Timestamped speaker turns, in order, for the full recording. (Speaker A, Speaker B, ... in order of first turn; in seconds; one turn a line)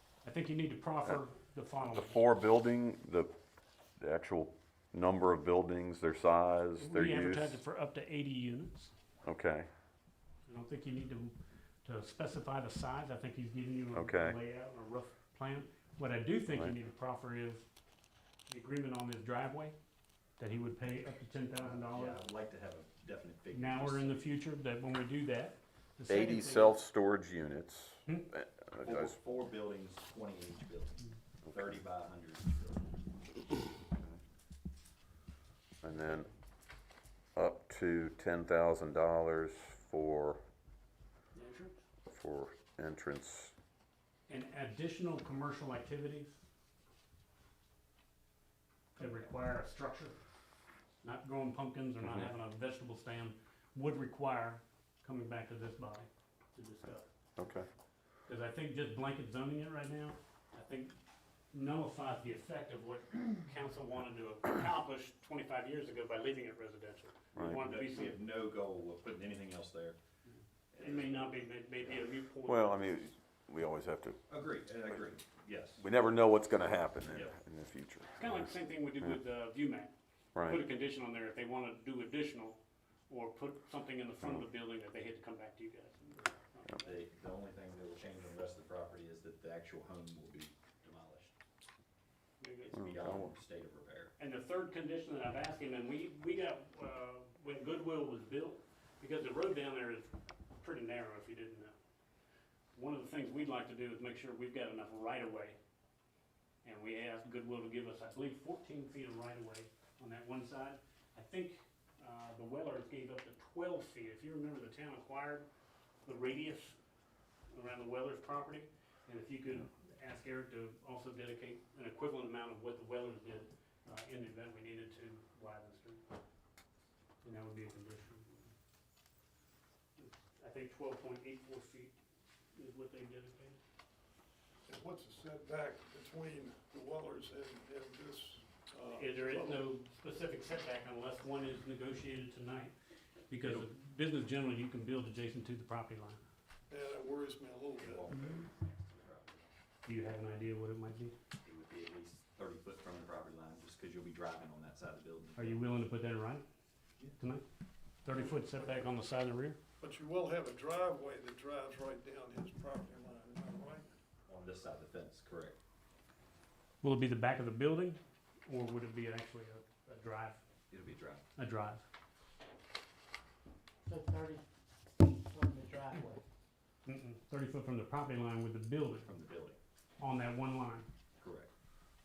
Speaker A: 0.2-2.4
Speaker B: 1.9-3.3
Speaker B: 4.0-7.6
Speaker A: 6.8-8.9
Speaker B: 9.2-9.7
Speaker A: 10.5-17.6
Speaker B: 13.9-14.3
Speaker A: 18.5-19.7
Speaker A: 20.4-22.2
Speaker C: 21.6-24.2
Speaker A: 23.5-26.8
Speaker B: 26.1-29.1
Speaker C: 28.8-31.0
Speaker C: 31.5-32.8
Speaker B: 33.9-34.2
Speaker B: 35.8-36.3
Speaker A: 35.9-36.3
Speaker B: 37.3-40.4
Speaker A: 41.3-41.8
Speaker B: 42.1-43.5
Speaker A: 44.3-46.4
Speaker A: 49.0-50.2
Speaker A: 51.0-57.1
Speaker B: 57.4-57.7
Speaker A: 58.2-61.0
Speaker A: 61.5-68.2
Speaker C: 67.3-70.0
Speaker B: 67.3-67.6
Speaker C: 70.7-72.0
Speaker A: 70.8-73.1
Speaker B: 72.4-74.2
Speaker C: 74.3-75.9
Speaker B: 75.8-78.5
Speaker C: 77.1-77.3
Speaker A: 78.1-87.0
Speaker B: 80.3-80.6
Speaker C: 86.8-91.3
Speaker A: 92.4-92.7
Speaker C: 92.6-94.1
Speaker B: 92.8-93.3
Speaker A: 94.2-101.8
Speaker A: 102.7-105.6
Speaker A: 106.6-115.5
Speaker A: 116.0-116.8
Speaker A: 117.5-126.1
Speaker A: 127.2-128.5
Speaker A: 130.0-131.9
Speaker A: 132.5-133.6
Speaker D: 134.7-139.7
Speaker A: 138.9-142.7
Speaker A: 143.3-146.2
Speaker C: 143.4-143.7
Speaker D: 146.7-148.3
Speaker C: 147.8-149.5
Speaker A: 148.1-148.4
Speaker A: 149.8-151.1
Speaker C: 151.4-155.6
Speaker A: 155.3-156.4
Speaker A: 157.2-157.4
Speaker A: 158.0-159.6
Speaker D: 159.8-163.9
Speaker C: 164.3-165.6
Speaker A: 166.8-170.4
Speaker C: 170.7-171.2
Speaker A: 171.3-171.8
Speaker E: 173.8-176.2
Speaker A: 176.8-179.1
Speaker C: 179.0-179.6
Speaker A: 180.0-180.9
Speaker C: 181.2-181.5